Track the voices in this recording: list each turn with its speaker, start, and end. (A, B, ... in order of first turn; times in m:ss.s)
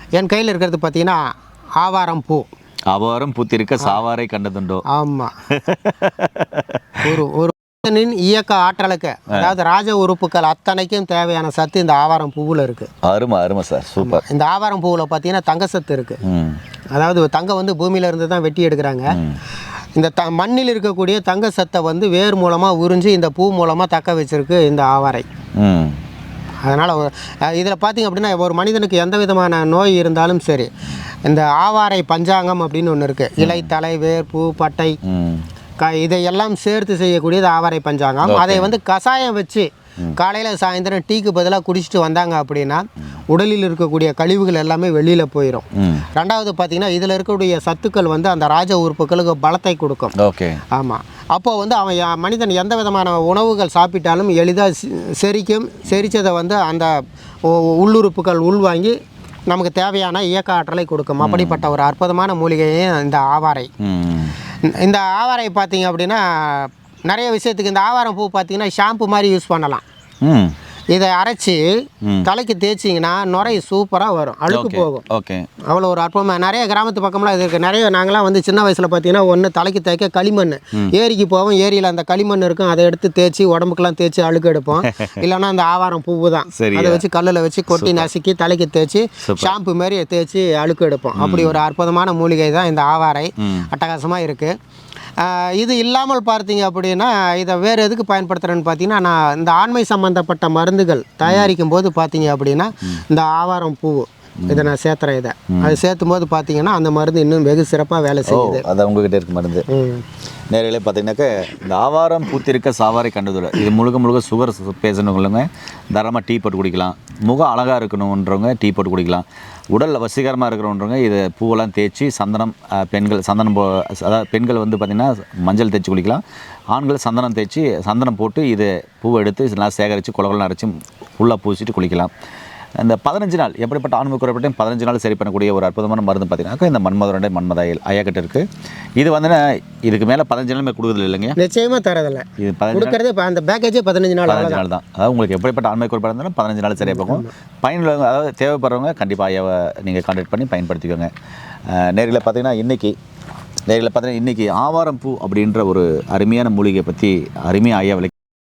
0:00.2-0:02.5 A
0:02.9-0:04.8 B
0:04.9-0:05.3 A
0:05.5-0:07.2 B
0:07.0-0:12.9 A
0:13.0-0:14.2 B
0:14.0-0:16.2 A
0:16.2-0:16.6 B
0:16.9-0:19.2 A
0:19.1-0:19.4 B
0:20.0-0:25.3 A
0:25.6-0:26.0 B
0:26.7-0:30.7 A
0:31.2-0:35.0 A
0:33.4-0:33.7 B
0:35.0-0:35.5 B
0:35.8-0:50.1 A
0:38.2-0:38.7 B
0:45.8-0:46.0 B
0:50.2-0:50.6 B
0:50.7-0:59.0 A
0:59.5-1:03.7 A
1:01.2-1:01.6 B
1:03.8-1:04.4 B
1:04.7-1:09.8 A
1:10.2-1:10.6 B
1:10.9-1:15.0 A
1:12.0-1:12.3 B
1:14.5-1:15.5 B
1:15.7-1:34.6 A
1:24.8-1:25.2 B
1:26.5-1:27.0 B
1:27.7-1:28.1 B
1:29.2-1:29.5 B
1:31.2-1:31.6 B
1:33.4-1:33.7 B
1:35.2-1:48.6 A
1:41.3-1:41.5 B
1:44.4-1:44.7 B
1:45.5-1:45.8 B
1:48.3-1:49.7 B
1:49.7-1:50.0 A
1:50.5-2:06.2 B
2:06.7-2:12.1 B
2:12.8-2:18.5 B
2:19.0-2:21.4 B
2:21.4-2:24.6 A
2:22.4-2:23.0 B
2:24.3-2:31.1 B
2:26.8-2:27.3 A
2:31.7-2:33.0 B
2:33.7-2:38.1 B